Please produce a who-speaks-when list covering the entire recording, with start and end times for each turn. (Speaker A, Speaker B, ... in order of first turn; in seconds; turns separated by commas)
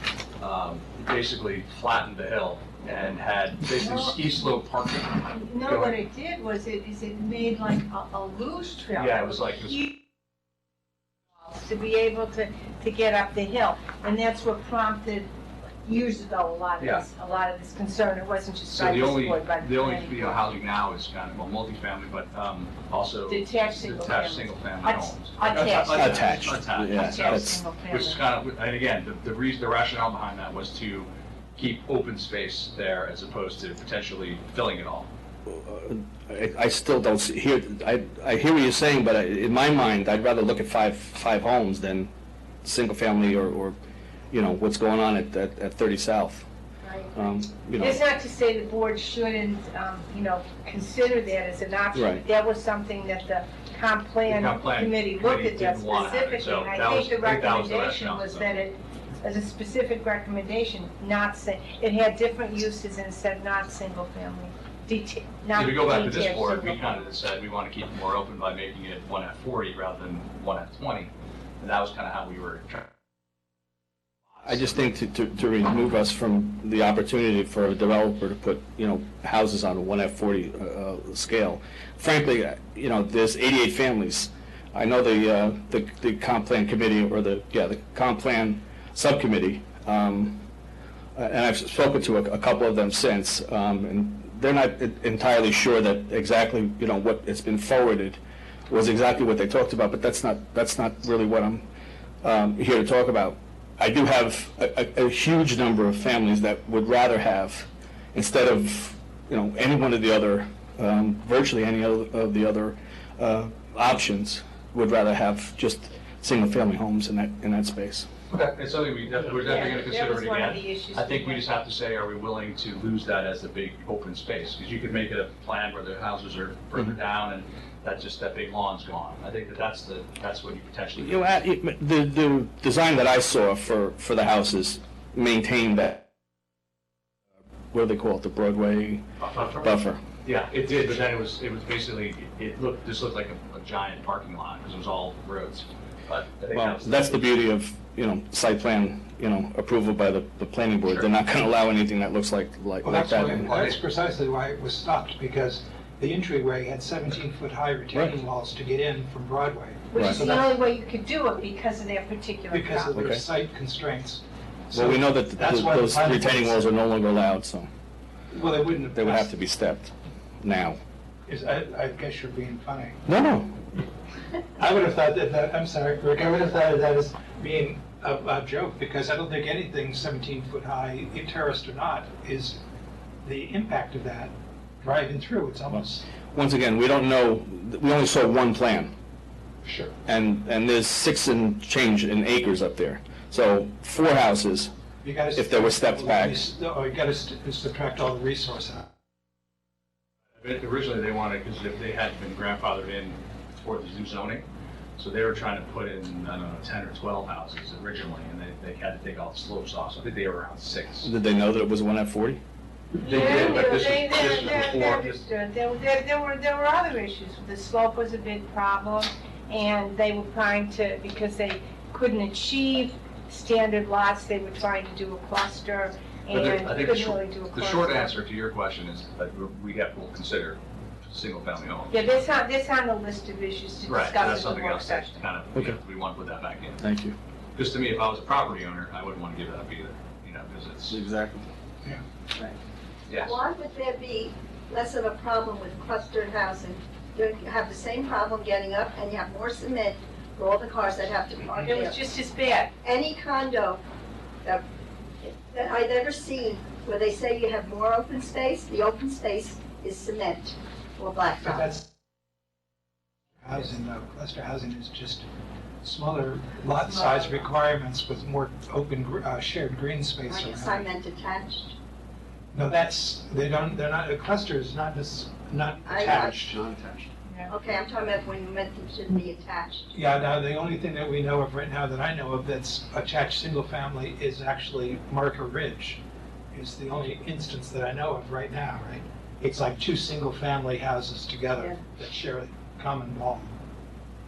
Speaker A: 0.4-5.9, Speaker B: 3.8-4.3, Speaker B: 5.3-9.9, Speaker A: 8.9-9.8, Speaker B: 11.4-15.3, Speaker B: 15.8-20.4, Speaker A: 16.8-17.0, Speaker A: 18.7-35.1, Speaker B: 23.3-28.2, Speaker C: 25.6-27.6, Speaker C: 35.5-42.1, Speaker C: 42.6-43.8, Speaker C: 44.3-46.5, Speaker B: 46.8-47.1, Speaker C: 47.1-48.0, Speaker B: 47.8-67.2, Speaker C: 51.9-52.2, Speaker A: 54.3-58.5, Speaker A: 65.5-72.9, Speaker C: 74.4-90.5, Speaker C: 91.2-101.7, Speaker C: 102.2-118.1, Speaker A: 118.3-131.4, Speaker B: 119.4-121.5, Speaker C: 131.0-136.1, Speaker C: 137.7-140.0, Speaker A: 139.2-139.7, Speaker A: 140.2-147.2, Speaker C: 146.5-153.7, Speaker D: 152.8-160.6, Speaker C: 157.9-158.2, Speaker B: 159.9-162.9, Speaker C: 160.0-160.2, Speaker D: 162.5-166.7, Speaker C: 162.9-163.2, Speaker C: 164.7-167.7, Speaker D: 168.3-169.3, Speaker C: 168.9-170.8, Speaker D: 171.3-173.0, Speaker C: 173.1-173.6, Speaker D: 174.6-182.6, Speaker D: 183.2-186.1, Speaker C: 186.3-188.9, Speaker D: 189.6-189.9, Speaker C: 190.1-194.7, Speaker D: 195.0-198.9, Speaker C: 195.3-196.5, Speaker A: 200.4-204.5, Speaker A: 205.0-211.1, Speaker C: 211.0-212.4, Speaker A: 213.0-215.2, Speaker B: 213.0-228.2, Speaker A: 226.3-232.1, Speaker B: 231.9-235.2, Speaker A: 233.9-236.8, Speaker C: 236.8-237.2, Speaker A: 237.6-241.0, Speaker C: 240.9-241.5, Speaker A: 243.1-243.4, Speaker E: 243.2-252.0, Speaker B: 251.7-252.7, Speaker E: 252.8-253.8, Speaker E: 255.2-261.7, Speaker D: 261.4-261.9, Speaker D: 263.4-265.2, Speaker D: 265.8-270.9, Speaker B: 267.1-267.3, Speaker E: 270.3-271.8, Speaker D: 272.5-277.1, Speaker E: 275.9-276.4, Speaker B: 277.3-277.5, Speaker E: 277.5-279.9, Speaker D: 279.9-286.0, Speaker D: 286.5-293.5, Speaker E: 291.6-291.8